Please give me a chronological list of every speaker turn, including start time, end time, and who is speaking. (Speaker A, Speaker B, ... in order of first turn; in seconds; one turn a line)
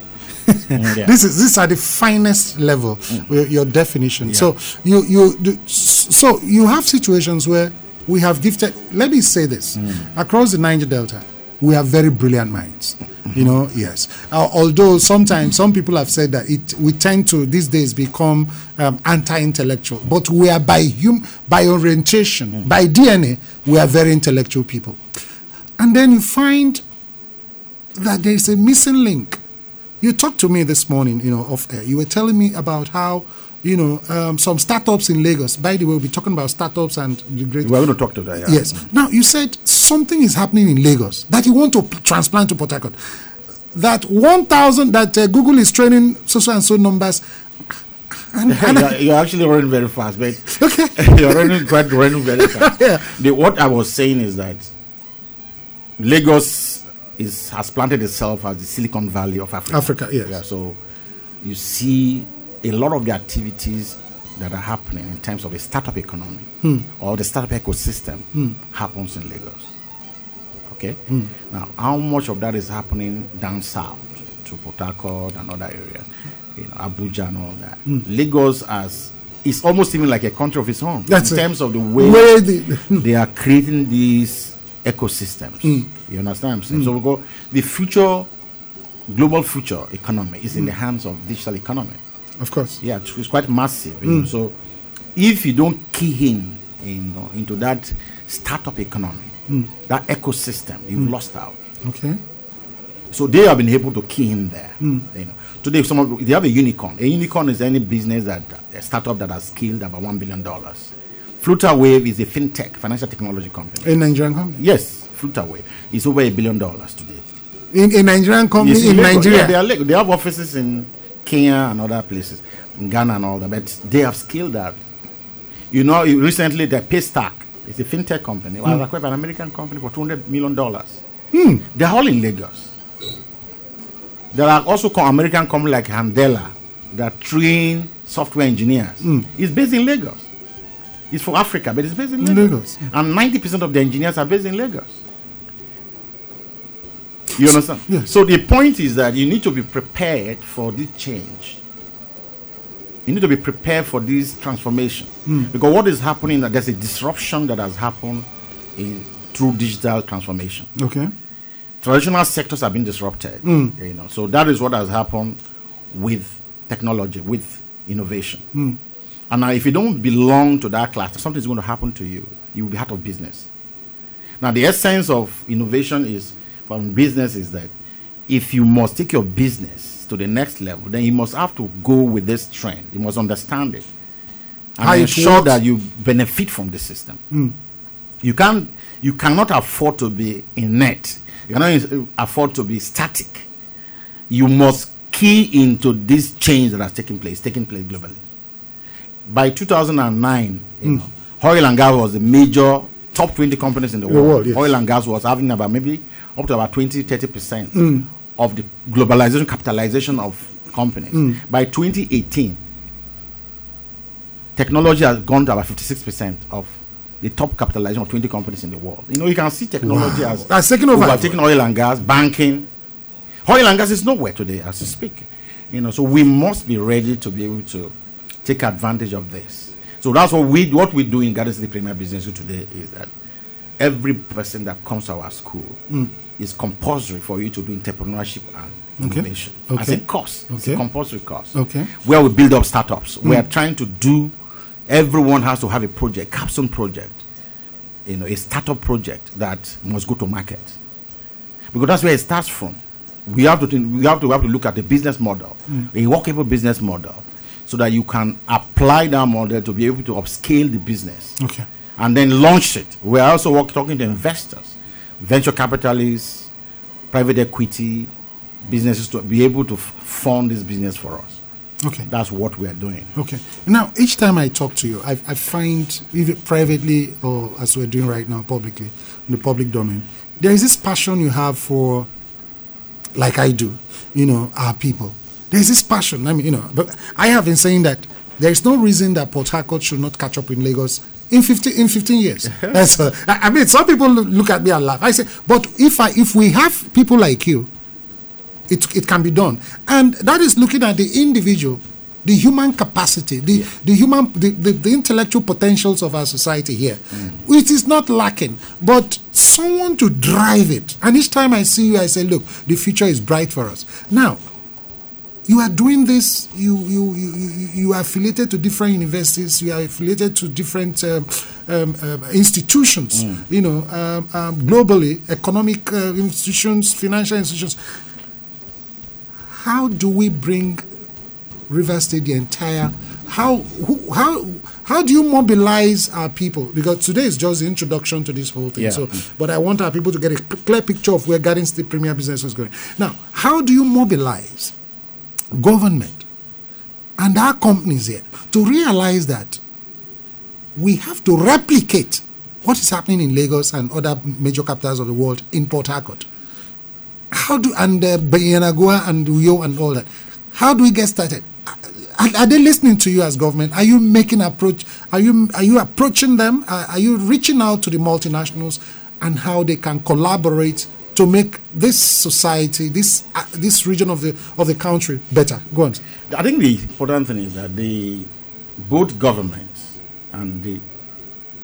Speaker A: 0.4-25.0
Speaker B: 0.7-1.1
Speaker A: 25.8-26.8
Speaker A: 27.9-29.4
Speaker A: 30.0-37.7
Speaker B: 37.6-38.8
Speaker A: 38.4-43.0
Speaker A: 43.7-47.2
Speaker A: 48.3-48.9
Speaker B: 48.5-54.7
Speaker A: 50.5-51.7
Speaker A: 52.2-53.0
Speaker B: 56.0-60.8
Speaker A: 59.7-60.4
Speaker B: 61.4-69.7
Speaker B: 70.7-82.3
Speaker A: 81.1-81.4
Speaker A: 82.0-83.0
Speaker B: 82.9-88.3
Speaker B: 89.1-92.0
Speaker A: 92.4-92.8
Speaker B: 92.8-94.5
Speaker B: 95.2-99.3
Speaker B: 99.9-101.5
Speaker A: 101.8-102.2
Speaker B: 103.1-113.9
Speaker A: 104.8-105.0
Speaker A: 113.8-114.6
Speaker B: 114.6-117.2
Speaker A: 117.7-119.5
Speaker B: 118.6-124.8
Speaker B: 125.7-131.0
Speaker A: 131.3-131.6
Speaker B: 131.7-132.7
Speaker B: 134.3-140.2
Speaker B: 141.1-145.0
Speaker A: 142.2-142.8
Speaker B: 147.3-151.6
Speaker B: 153.1-160.7
Speaker A: 160.8-161.1
Speaker B: 161.8-165.4
Speaker A: 163.4-163.7
Speaker B: 165.9-168.4
Speaker B: 169.3-173.5
Speaker B: 174.4-177.7
Speaker B: 178.3-183.8
Speaker B: 184.8-187.2
Speaker A: 184.8-185.6
Speaker B: 188.2-193.5
Speaker B: 194.3-198.2
Speaker B: 199.2-212.6
Speaker A: 204.1-204.7
Speaker A: 207.7-208.1
Speaker A: 211.1-211.4
Speaker B: 214.6-222.7
Speaker A: 219.8-221.3
Speaker B: 223.4-227.9
Speaker B: 228.4-233.1
Speaker B: 233.8-235.8
Speaker B: 236.4-244.3
Speaker A: 239.0-240.8
Speaker A: 241.5-241.9
Speaker B: 244.9-247.2
Speaker B: 248.1-250.8
Speaker B: 251.7-261.4
Speaker A: 261.4-261.6
Speaker B: 262.0-266.5
Speaker B: 267.1-268.1
Speaker B: 268.6-271.4
Speaker A: 271.8-272.1
Speaker B: 272.1-273.1
Speaker A: 273.1-282.1
Speaker A: 283.1-297.7
Speaker A: 298.7-314.4
Speaker A: 315.5-327.8
Speaker A: 329.5-330.8
Speaker A: 331.7-344.7
Speaker B: 338.8-339.1
Speaker A: 345.5-346.2
Speaker A: 347.2-349.6
Speaker A: 350.8-356.3
Speaker A: 357.3-376.0
Speaker B: 376.3-378.3
Speaker B: 378.8-380.8